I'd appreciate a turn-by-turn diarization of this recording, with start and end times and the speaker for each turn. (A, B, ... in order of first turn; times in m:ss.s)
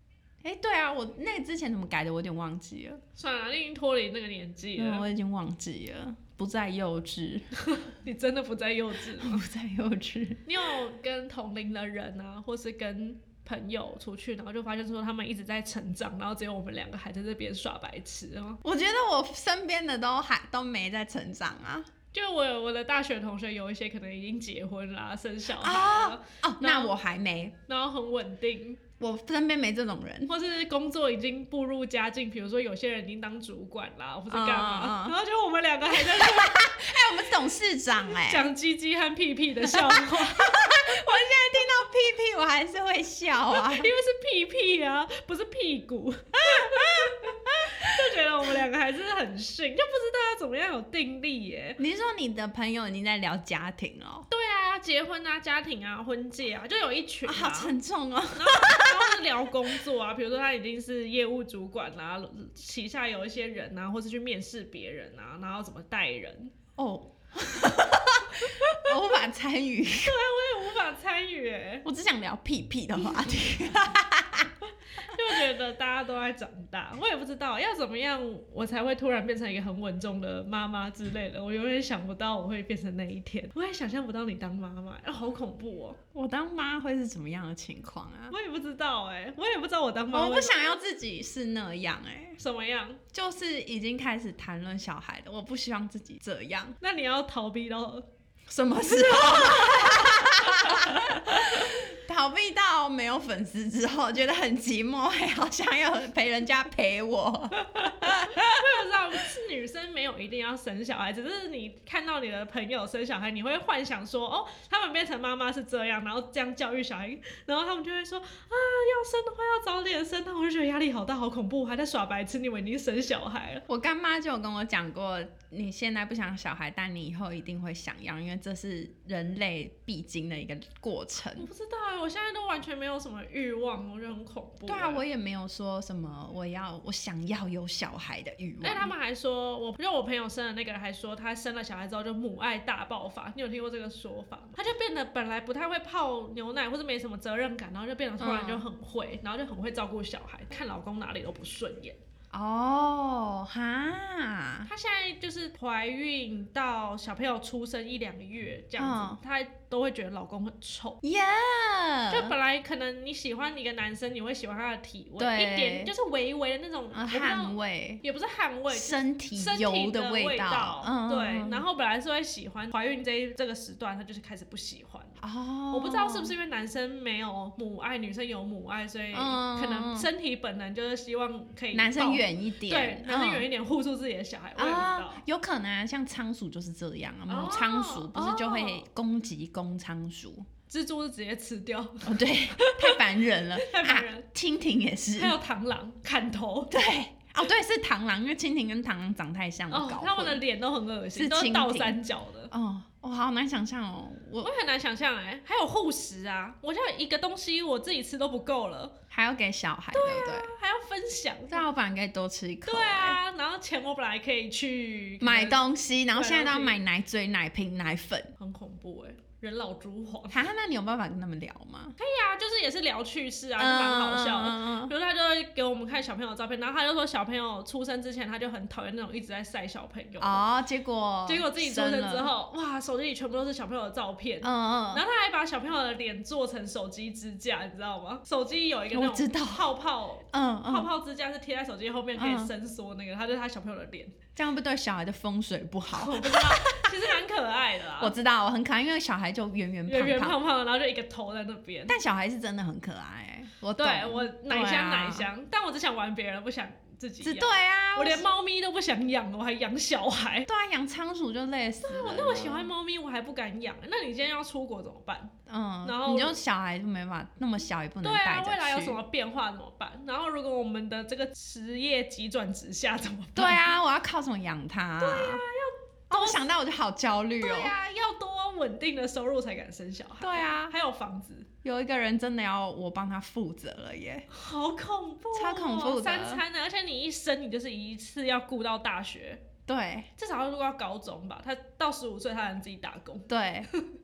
0:00.4-0:03.0 A
0:03.2-0:05.1 B
0:04.8-0:07.4 A
0:07.6-0:09.4 B
0:09.1-0:10.4 A
0:10.4-0:18.6 B
0:18.6-0:21.9 A
0:22.1-0:26.9 B
0:25.6-0:27.6 A
0:27.7-0:28.8 B
0:29.0-0:30.4 A
0:30.3-0:36.9 B
0:34.3-0:35.2 A
0:35.9-0:38.5 A
0:38.1-0:40.9 B
0:39.6-0:43.9 A
0:43.5-0:51.8 B
0:46.5-0:47.9 A
0:51.8-0:54.3 A
0:54.3-0:57.7 B
0:57.2-0:59.3 A
0:58.3-1:06.5 B
1:06.8-1:10.2 A
1:08.4-1:08.9 B
1:10.0-1:11.9 B
1:11.8-1:14.5 A
1:15.0-1:26.0 B
1:26.1-1:28.4 A
1:28.3-1:30.7 B
1:30.1-1:32.4 A
1:32.4-1:33.0 B
1:33.1-1:36.8 A
1:36.8-1:38.0 B
1:38.5-1:48.6 A
1:38.8-1:41.8 B
1:47.7-2:03.6 B
2:03.7-2:11.5 A
2:11.4-2:15.0 B
2:14.6-2:18.9 A
2:18.6-2:32.0 B
2:28.2-2:28.6 A
2:32.3-2:34.7 A
2:34.6-2:41.0 B
2:38.8-2:39.2 A
2:41.0-2:42.3 A
2:42.1-2:55.2 B
2:45.2-2:45.9 A
2:46.9-2:48.0 A
2:48.7-2:51.6 A
2:55.2-2:56.4 A
2:55.7-3:05.2 B
2:59.1-3:00.1 A
3:01.7-3:03.5 A
3:04.6-3:10.5 A
3:07.3-3:08.8 B
3:10.7-3:14.3 B
3:12.0-3:15.4 A
3:15.2-3:16.7 B
3:16.7-3:20.4 A
3:19.7-3:22.5 B
3:21.1-3:22.0 A
3:22.5-3:24.5 A
3:24.4-3:29.0 B
3:29.1-3:30.5 A
3:29.9-3:31.6 B
3:31.5-3:33.2 A
3:32.6-3:36.8 B
3:35.2-3:38.3 A
3:38.4-3:40.4 B
3:40.3-3:41.9 A
3:42.0-3:50.4 B
3:43.6-3:44.9 A
3:50.2-3:52.3 A
3:51.2-4:04.1 B
3:54.4-3:55.0 A
3:58.9-3:59.7 A
4:00.3-4:00.9 A
4:02.2-4:02.5 A
4:04.4-4:07.0 A
4:05.9-4:08.1 B
4:08.0-4:10.4 A
4:09.9-4:11.9 B
4:11.9-4:15.3 A
4:13.8-4:20.5 B
4:17.2-4:18.2 A
4:20.5-4:22.7 A
4:21.8-4:26.4 B
4:25.5-4:29.0 A
4:28.0-4:33.7 B
4:33.4-4:35.4 A
4:35.0-4:36.4 B
4:36.1-4:37.8 A
4:37.4-4:41.5 B
4:40.2-4:40.7 A
4:41.6-4:44.3 A
4:44.3-4:49.4 B
4:45.3-4:46.4 A
4:49.7-4:50.1 A
4:50.2-4:53.9 B
4:53.3-4:53.7 A